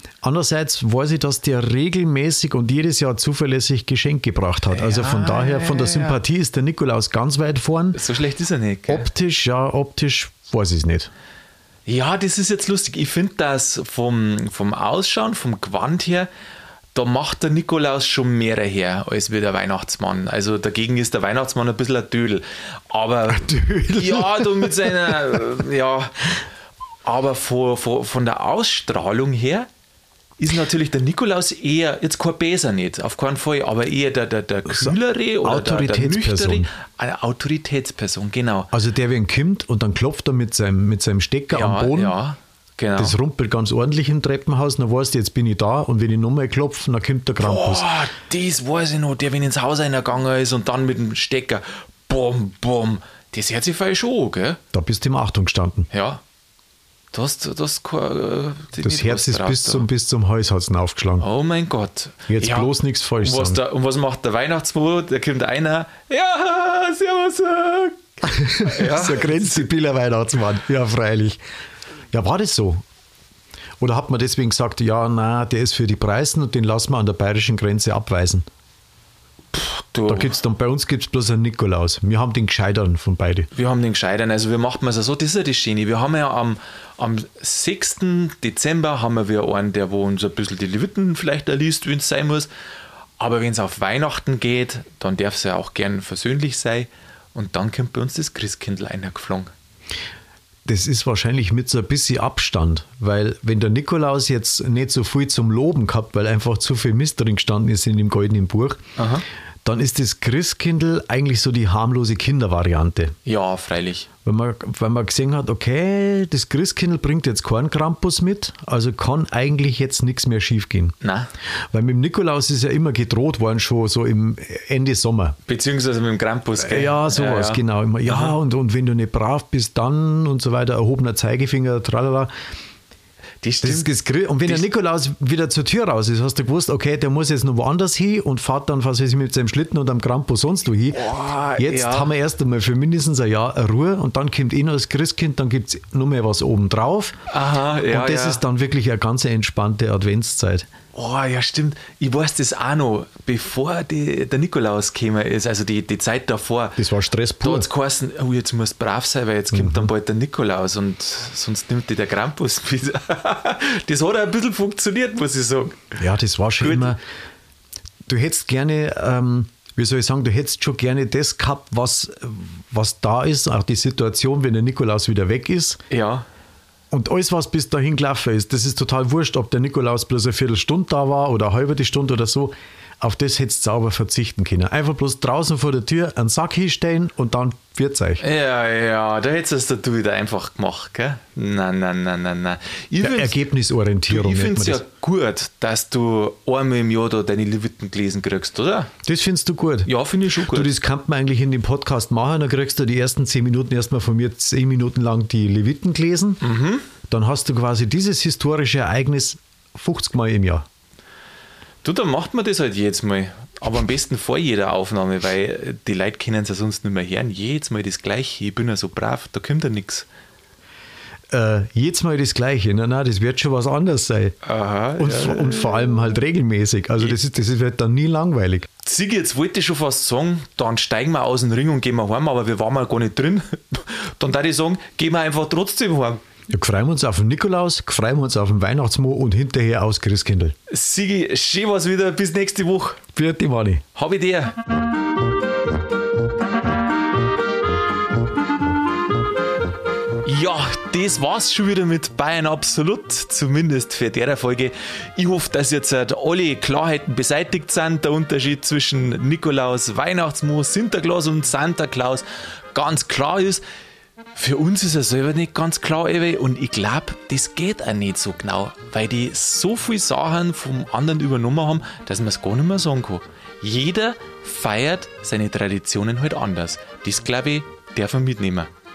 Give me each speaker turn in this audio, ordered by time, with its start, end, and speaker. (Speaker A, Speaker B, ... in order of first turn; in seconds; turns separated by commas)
Speaker A: 0.2-8.0, Speaker B: 4.7-6.2, Speaker B: 7.9-9.1, Speaker A: 8.9-11.1, Speaker B: 11.9-16.3, Speaker B: 16.9-26.4, Speaker A: 23.3-25.4, Speaker B: 27.1-29.7, Speaker B: 30.4-38.7, Speaker A: 34.7-36.7, Speaker A: 38.7-42.2, Speaker B: 41.5-43.2, Speaker A: 43.0-47.9, Speaker B: 47.4-54.6, Speaker A: 54.7-55.9, Speaker B: 55.9-56.2, Speaker B: 57.1-59.9, Speaker A: 58.8-61.3, Speaker B: 61.2-69.7, Speaker A: 62.3-63.6, Speaker A: 68.3-71.4, Speaker A: 72.1-72.8, Speaker A: 73.8-78.5, Speaker B: 79.5-80.4, Speaker A: 80.1-83.5, Speaker B: 83.5-92.5, Speaker B: 93.2-99.5, Speaker A: 100.7-108.8, Speaker B: 109.0-109.2, Speaker A: 109.7-113.2, Speaker B: 113.2-114.1, Speaker A: 114.2-120.9, Speaker B: 121.0-121.3, Speaker A: 121.7-125.4, Speaker B: 125.5-128.4, Speaker A: 126.6-132.3, Speaker B: 133.4-133.9, Speaker A: 133.6-147.2, Speaker B: 140.9-142.1, Speaker B: 147.3-148.4, Speaker A: 147.8-150.7, Speaker B: 150.9-156.8, Speaker A: 156.8-157.7, Speaker B: 157.4-166.0, Speaker A: 159.5-159.9, Speaker A: 166.0-167.0, Speaker B: 166.6-167.0, Speaker A: 168.1-175.8, Speaker B: 175.9-176.2, Speaker A: 176.9-188.2, Speaker B: 188.2-193.4, Speaker A: 193.0-194.8, Speaker B: 194.1-198.9, Speaker A: 199.0-206.4, Speaker B: 199.9-200.7, Speaker B: 206.4-206.9, Speaker A: 207.1-210.7, Speaker B: 211.8-220.1, Speaker A: 221.3-224.4, Speaker B: 224.4-226.2, Speaker A: 225.0-228.7, Speaker B: 228.8-236.2, Speaker A: 236.5-240.6, Speaker B: 240.7-243.0, Speaker A: 243.1-243.8, Speaker B: 243.9-244.6, Speaker B: 250.2-263.6, Speaker B: 264.4-278.7